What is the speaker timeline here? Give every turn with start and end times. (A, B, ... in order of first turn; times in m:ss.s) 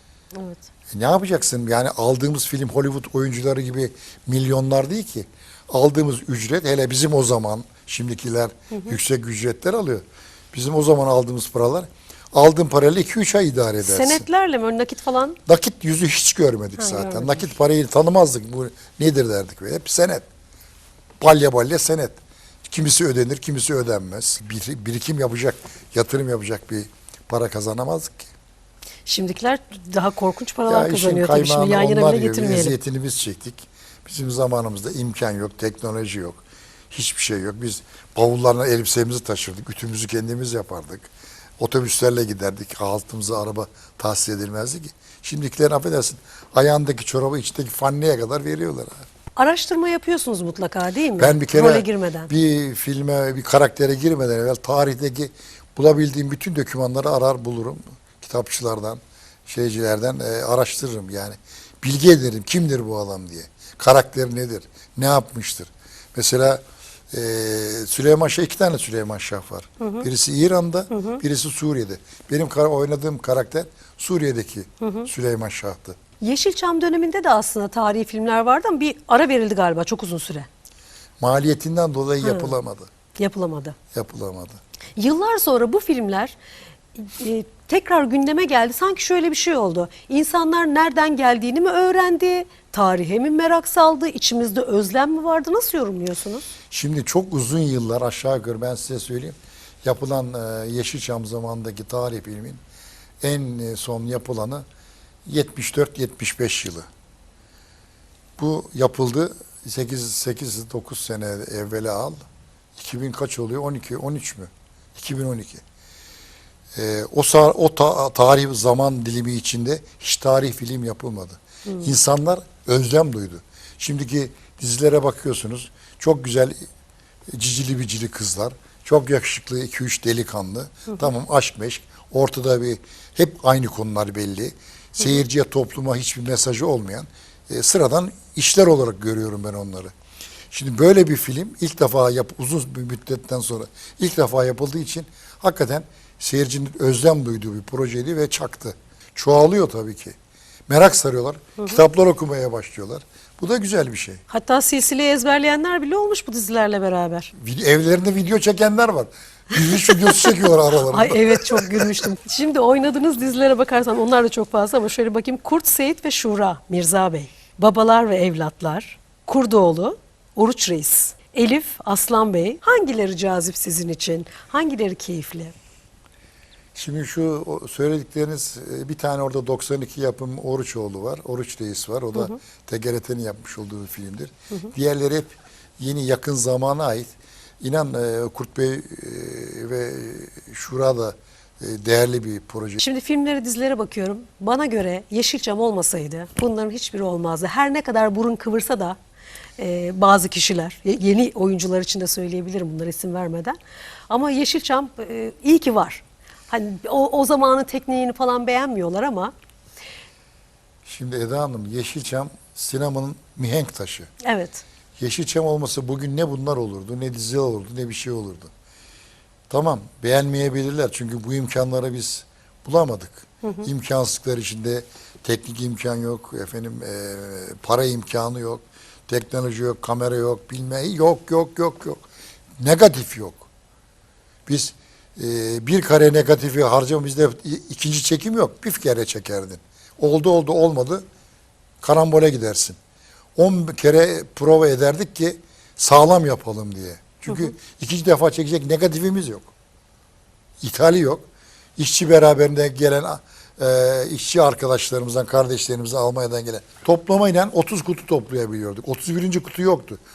0:00.4-0:00.6 A
0:00.9-0:14.2 B
0:13.8-0:15.4 A
0:15.5-0:20.2 B
0:16.8-0:17.5 A
0:21.2-0:28.3 B
0:29.1-0:32.8 A
0:30.7-0:49.0 B
0:49.4-0:52.3 A
0:51.2-1:16.0 B
1:09.8-1:10.1 A
1:10.9-1:11.2 A
1:14.8-1:15.1 A
1:16.2-1:20.5 A
1:21.2-1:22.9 B
1:22.2-1:22.5 A
1:23.2-1:23.8 A
1:23.9-1:24.6 B
1:25.0-1:26.4 A
1:27.0-1:36.4 A
1:36.7-1:42.6 B
1:43.2-1:44.7 B
1:45.3-1:46.9 B
1:48.4-1:52.2 B
1:52.8-1:55.6 B
1:56.8-2:06.6 B
2:01.7-2:01.9 A
2:07.3-2:19.9 B
2:20.5-2:30.2 B
2:30.7-2:34.2 B
2:34.3-2:37.3 A
2:37.4-2:41.9 B
2:39.9-2:40.4 A
2:40.9-2:55.6 A
2:56.8-3:12.8 B
3:12.8-3:19.0 A
3:19.6-3:23.6 A
3:24.1-3:29.3 A
3:30.8-3:34.1 B
3:34.2-3:34.6 A
3:35.0-3:38.5 B
3:39.5-3:52.0 B
3:43.4-3:43.7 A
3:52.6-3:53.5 B
3:54.5-4:01.0 B
4:01.8-4:02.8 B
4:03.4-4:09.5 B
4:07.3-4:07.5 A
4:10.6-4:11.3 B
4:11.8-4:20.0 B